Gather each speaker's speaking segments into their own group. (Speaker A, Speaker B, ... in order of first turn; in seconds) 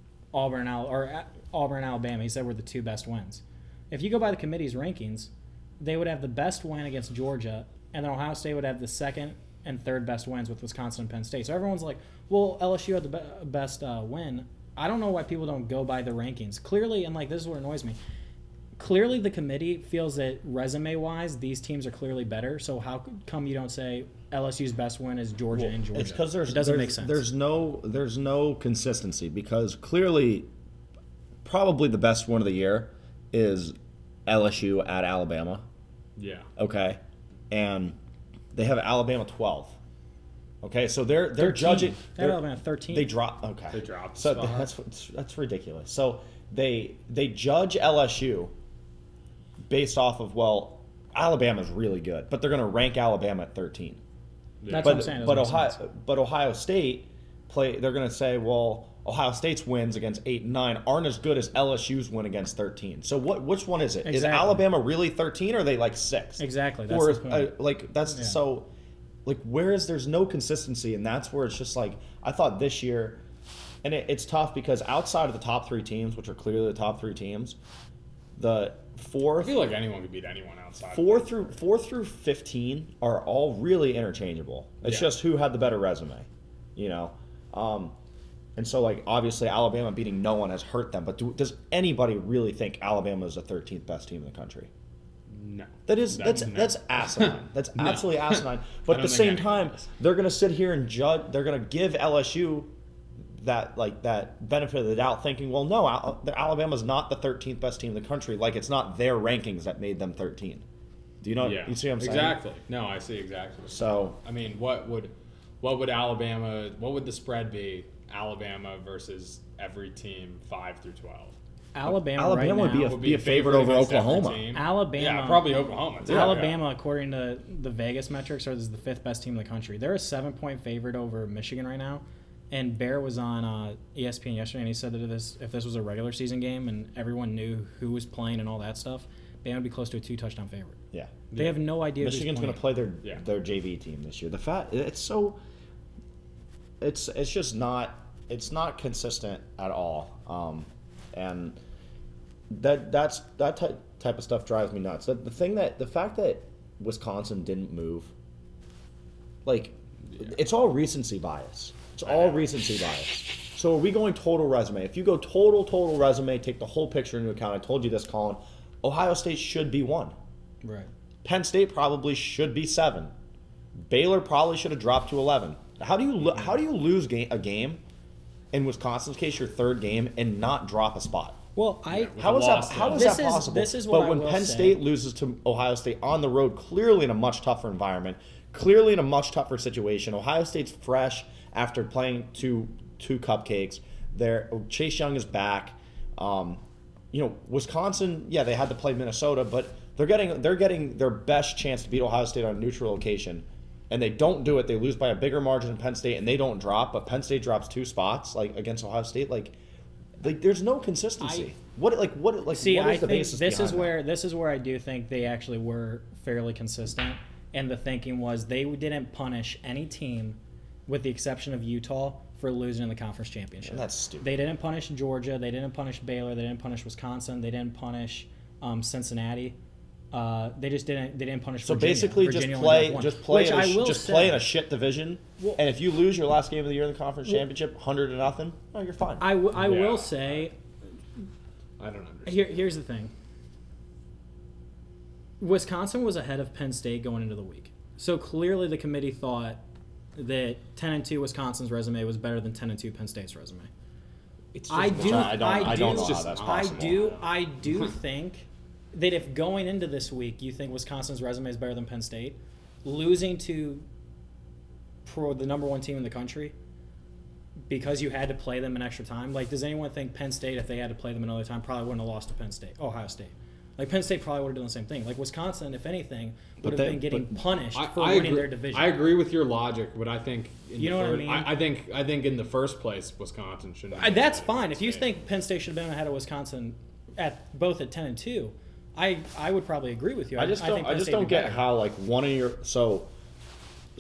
Speaker A: 0.3-18.0, 18.8-27.2, 41.4-43.1, 54.7-55.8, 64.0-64.7, 66.4-67.5, 121.7-123.0, 124.5-140.8, 141.3-142.6, 170.6-170.9, 181.6-182.2, 182.9-184.8, 211.2-211.5, 212.5-229.6, 230.1-234.4, 239.2-240.6, 242.3-243.1, 245.4-249.6, 250.2-253.7, 254.7-263.9, 265.1-266.6, 267.7-279.0, 280.8-281.5, 283.9-291.6
Speaker B: 25.5-30.5, 31.4-33.8, 34.3-35.7, 36.6-38.0, 38.5-39.8, 40.6-48.5, 49.7-54.0, 54.8-68.7, 69.3-73.2, 73.8-77.6, 78.4-79.6, 80.9-88.0, 88.6-94.7, 95.9-110.7, 111.2-112.4, 113.7-114.2, 121.9-124.5, 126.1-126.4, 140.9-141.3, 141.9-145.4, 146.8-151.6, 152.5-158.1, 159.4-170.1, 171.2-173.1, 173.8-177.8, 178.5-181.4, 182.2-209.6, 210.2-214.0, 223.6-224.3, 231.6-239.3, 254.7-257.1, 276.6-277.4, 290.4-293.1
Speaker C: 36.2-36.5, 43.7-44.7, 54.6-55.1, 79.4-81.5, 84.8-85.1, 95.3-99.9, 111.4-121.4, 122.8-126.6, 141.3-141.6, 162.0-162.5, 181.9-183.4, 239.6-240.3, 241.8-242.6, 254.5-257.8, 277.7-285.1